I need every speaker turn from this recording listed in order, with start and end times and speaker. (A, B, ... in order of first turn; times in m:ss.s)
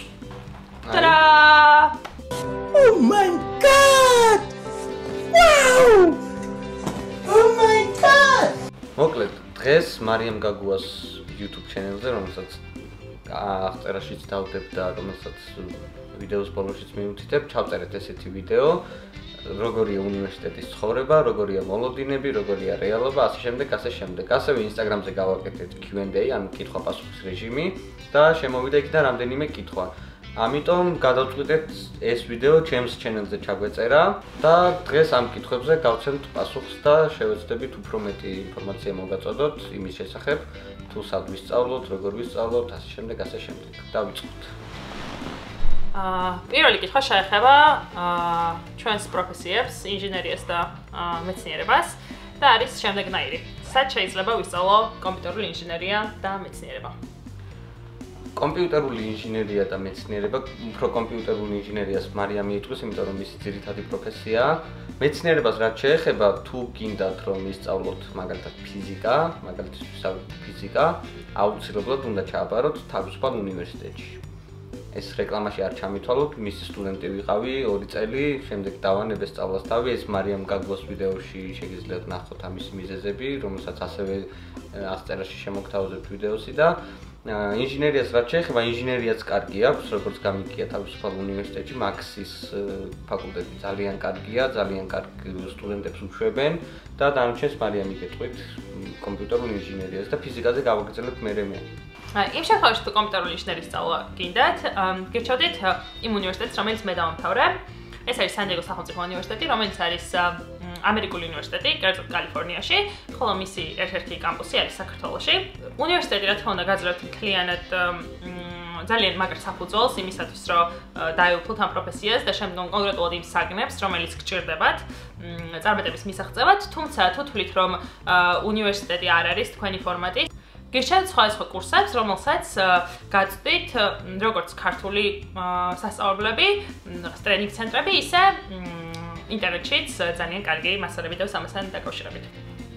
0:00.8-0:01.2 A
0:00.9-0:02.0 B
0:02.7-0:04.4 C
0:05.3-0:06.2 C
0:07.4-0:08.5 C
0:09.0-0:12.6 A
0:13.3-0:18.8 A
0:19.4-0:44.5 A
0:45.9-0:57.0 B
0:58.4-1:14.2 A
1:14.9-1:41.6 A
1:42.1-2:22.3 B